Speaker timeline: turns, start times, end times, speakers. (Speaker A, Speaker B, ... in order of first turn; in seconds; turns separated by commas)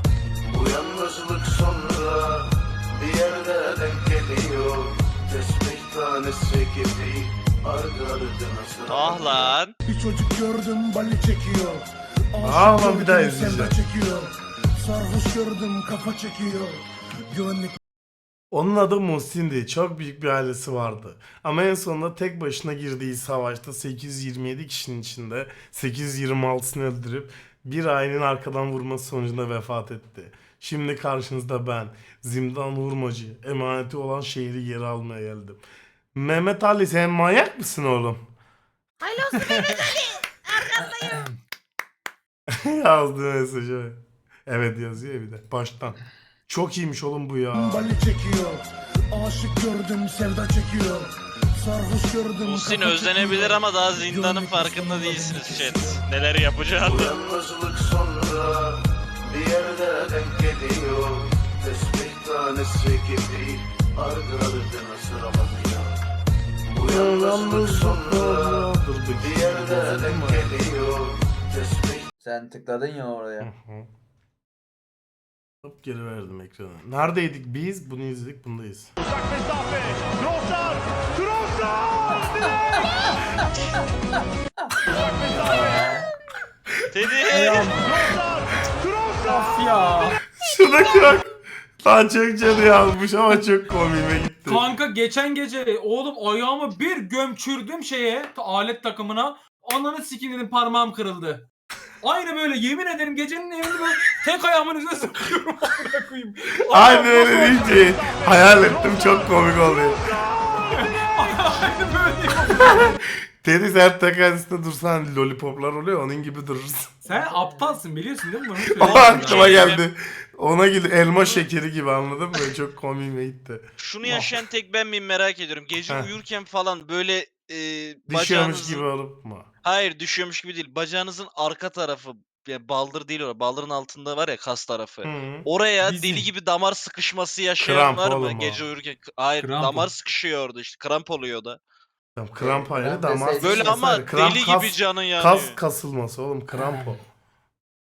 Speaker A: 0.4-9.5, Speaker B: 8.9-9.7, Speaker C: 9.8-17.8, Speaker D: 12.4-13.7, Speaker D: 18.5-35.6, Speaker D: 36.1-38.2, Speaker E: 39.0-41.3, Speaker F: 40.8-41.3, Speaker D: 42.5-47.8, Speaker C: 47.5-56.0, Speaker B: 52.4-57.1, Speaker A: 56.8-66.0, Speaker A: 66.7-68.7, Speaker D: 66.8-70.6, Speaker A: 69.2-72.0, Speaker G: 72.2-73.5, Speaker D: 73.4-73.9, Speaker D: 75.6-78.9, Speaker F: 85.3-86.0, Speaker B: 86.9-87.7, Speaker F: 87.3-88.0, Speaker F: 89.2-90.2, Speaker D: 90.4-91.3, Speaker D: 91.8-94.6, Speaker F: 94.5-101.4, Speaker F: 102.0-107.9, Speaker D: 106.7-110.0, Speaker F: 110.7-113.0, Speaker D: 113.4-117.0, Speaker F: 117.0-119.8, Speaker G: 117.1-117.8, Speaker D: 118.7-124.3, Speaker B: 118.9-119.8, Speaker B: 123.8-128.8, Speaker D: 128.1-129.5, Speaker B: 129.6-141.6, Speaker D: 135.0-135.4, Speaker F: 135.8-136.3, Speaker D: 137.6-138.6, Speaker F: 139.4-139.9, Speaker D: 142.2-147.0, Speaker G: 142.4-144.0, Speaker B: 143.4-145.6, Speaker F: 146.6-146.9